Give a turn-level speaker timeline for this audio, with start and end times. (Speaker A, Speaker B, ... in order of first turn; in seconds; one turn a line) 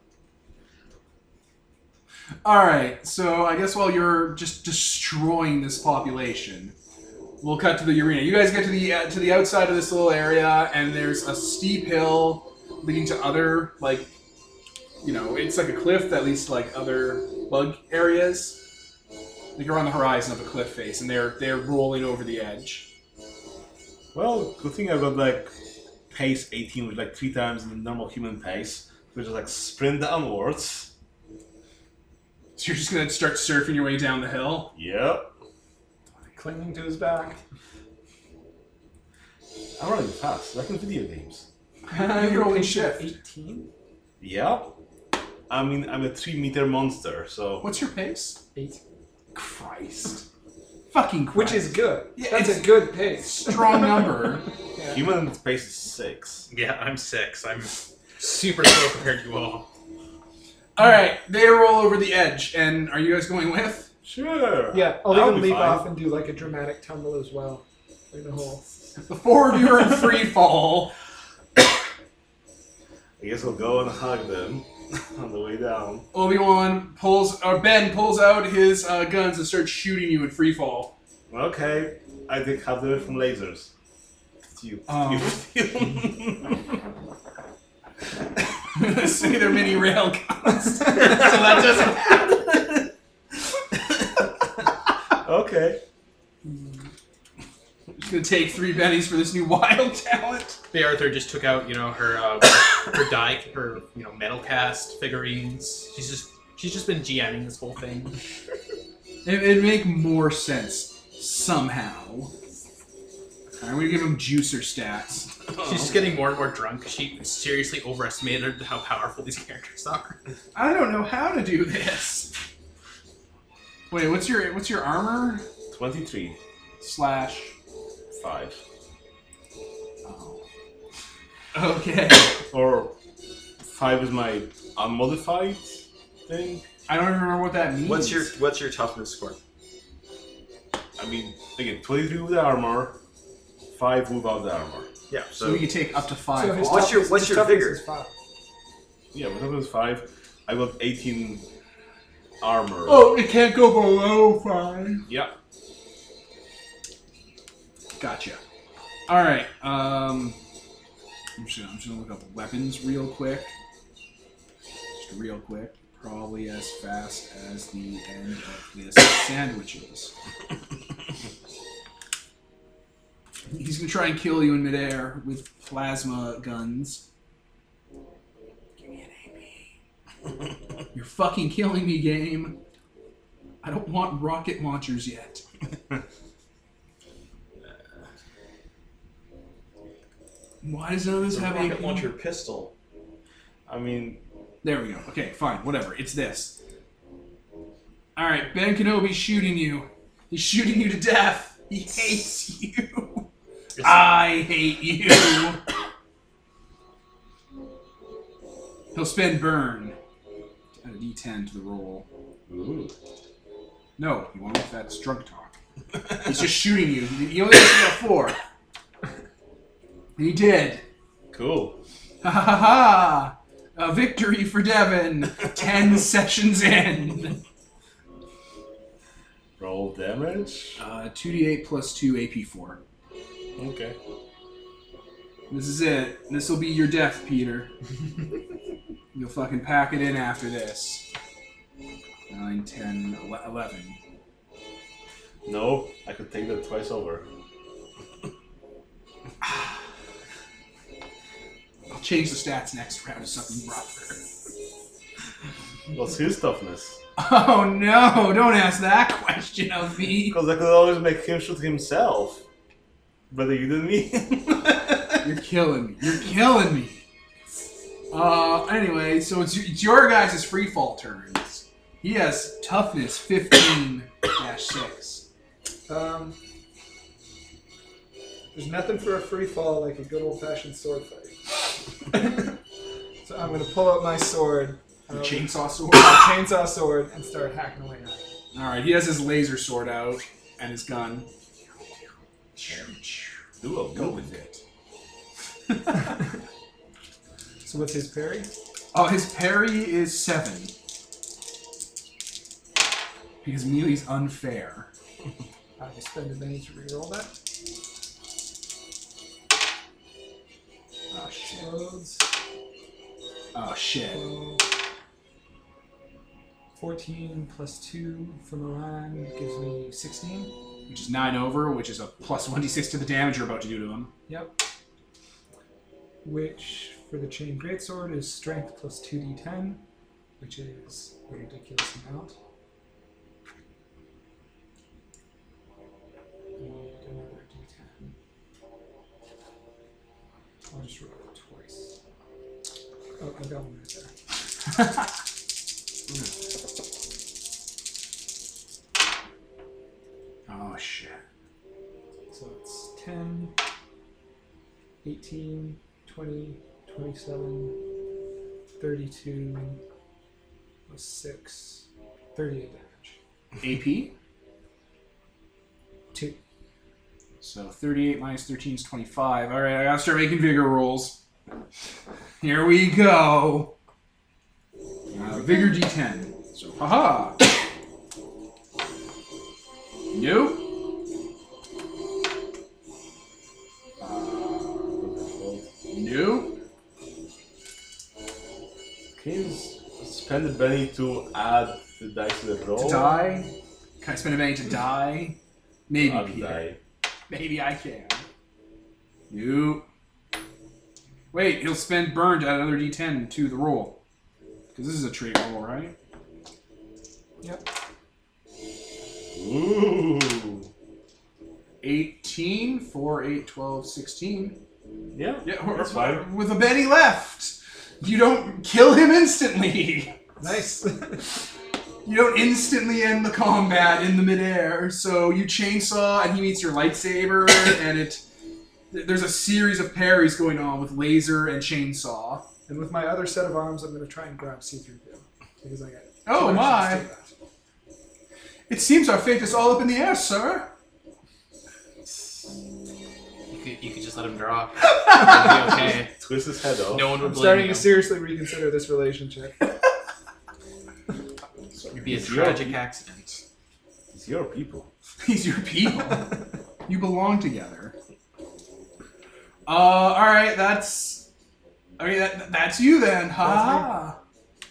Speaker A: 2.4-6.7
Speaker A: 7.4-14.1
Speaker A: 15.0-18.6
Speaker A: 19.6-22.9
Speaker B: 24.1-25.5
Speaker B: 26.1-30.9
Speaker A: 32.6-34.7
Speaker B: 34.7-35.3
Speaker C: 36.3-37.4
Speaker B: 39.8-41.5
Speaker A: 41.9-43.1
Speaker C: 41.9-43.7
Speaker B: 44.2-44.7
Speaker B: 45.5-47.6
Speaker A: 47.6-48.4
Speaker C: 48.5-48.8
Speaker A: 49.3-50.2
Speaker A: 50.9-54.5
Speaker C: 51.3-54.2
Speaker C: 54.7-55.0
Speaker B: 54.9-56.5
Speaker D: 56.5-59.7
Speaker A: 60.8-63.9
Speaker B: 64.0-65.9
Speaker C: 64.7-68.7
Speaker A: 69.0-70.9
Speaker B: 73.2-76.1
Speaker A: 76.1-80.9
Speaker B: 81.3-83.7
Speaker B: 84.5-86.8
Speaker A: 84.9-85.4
Speaker A: 88.7-91.3
Speaker D: 90.8-92.5
Speaker B: 95.2-95.8
Speaker A: 98.0-100.6
Speaker D: 100.7-108.2
Speaker A: 109.2-112.3
Speaker A: 113.6-115.3
Speaker B: 115.5-116.1
Speaker D: 115.6-120.2
Speaker A: 120.5-122.3
Speaker A: 123.9-125.4
Speaker B: 125.7-126.4
Speaker A: 126.8-127.5
Speaker B: 128.1-128.6
Speaker A: 130.0-130.4
Speaker A: 131.5-132.4
Speaker B: 132.5-132.9
Speaker B: 133.6-136.6
Speaker A: 136.9-138.3
Speaker E: 137.8-139.4
Speaker B: 141.0-143.0
Speaker B: 143.7-144.9
Speaker E: 145.1-145.7
Speaker A: 145.4-147.1
Speaker C: 146.3-148.1
Speaker E: 146.6-147.8
Speaker B: 149.1-151.4
Speaker B: 152.4-153.1
Speaker A: 152.8-155.1
Speaker B: 155.1-155.3
Speaker A: 158.0-158.4
Speaker A: 159.1-160.4
Speaker A: 161.4-163.5
Speaker A: 164.9-170.1
Speaker A: 173.5-177.0
Speaker A: 178.8-179.7
Speaker A: 180.9-182.6
Speaker A: 183.6-185.4
Speaker A: 190.6-192.1
Speaker E: 191.3-192.7
Speaker B: 193.7-194.2
Speaker A: 194.6-196.6
Speaker A: 198.2-203.2
Speaker A: 203.8-205.6
Speaker A: 208.9-210.0
Speaker A: 210.8-212.1
Speaker B: 212.5-212.9
Speaker A: 214.0-215.5
Speaker A: 216.2-218.4
Speaker A: 220.2-220.8
Speaker B: 221.3-221.8
Speaker A: 222.2-227.4
Speaker B: 229.6-230.8
Speaker A: 230.8-232.8
Speaker B: 233.6-233.9
Speaker A: 235.5-237.7
Speaker A: 239.1-241.1
Speaker A: 242.3-244.0
Speaker B: 245.4-247.2
Speaker A: 251.9-254.2
Speaker B: 255.9-257.0
Speaker A: 257.2-260.4
Speaker B: 260.3-262.4
Speaker B: 263.3-265.2
Speaker A: 265.2-267.0
Speaker A: 268.1-275.2
Speaker C: 275.9-276.4
Speaker C: 278.5-282.6
Speaker C: 283.2-288.3
Speaker A: 285.1-286.4
Speaker A: 288.5-291.3
Speaker A: 292.6-293.4
Speaker B: 293.6-294.4
Speaker A: 293.9-294.6
Speaker C: 297.6-298.5
Speaker A: 298.9-300.7
Speaker A: 303.4-304.9
Speaker C: 305.8-307.3
Speaker A: 311.1-311.8
Speaker C: 311.5-312.3
Speaker A: 313.5-314.3
Speaker C: 314.1-314.6
Speaker C: 316.8-320.6
Speaker A: 320.9-324.1
Speaker C: 324.3-324.6
Speaker C: 326.2-329.8
Speaker C: 330.4-332.3
Speaker C: 336.6-338.1
Speaker C: 340.7-342.0
Speaker C: 343.2-344.1
Speaker A: 350.5-351.2
Speaker C: 352.3-353.5
Speaker C: 355.0-357.8
Speaker C: 358.8-359.8
Speaker C: 360.9-363.2
Speaker A: 363.6-364.1
Speaker A: 367.4-371.2
Speaker A: 372.4-373.7
Speaker A: 375.1-377.4
Speaker A: 380.1-380.7
Speaker A: 384.0-384.9
Speaker B: 385.0-385.7
Speaker A: 385.9-386.6
Speaker B: 389.1-393.1
Speaker A: 392.8-396.7
Speaker B: 396.0-396.8
Speaker A: 397.3-398.2
Speaker A: 399.3-399.8
Speaker A: 401.3-404.0
Speaker A: 404.7-405.9
Speaker B: 409.3-410.7
Speaker A: 411.8-414.6
Speaker B: 415.1-416.2
Speaker A: 415.4-420.5
Speaker C: 420.4-421.2
Speaker A: 422.0-428.2
Speaker A: 428.9-432.5
Speaker C: 432.7-437.3
Speaker A: 436.2-437.0
Speaker A: 438.7-440.7
Speaker D: 443.5-446.1
Speaker B: 445.4-447.1
Speaker D: 446.9-448.0
Speaker C: 447.2-449.6
Speaker D: 451.9-453.4
Speaker B: 452.1-452.8
Speaker B: 454.1-454.9
Speaker A: 455.2-457.9
Speaker A: 459.7-461.3
Speaker A: 462.0-464.2
Speaker C: 463.4-463.9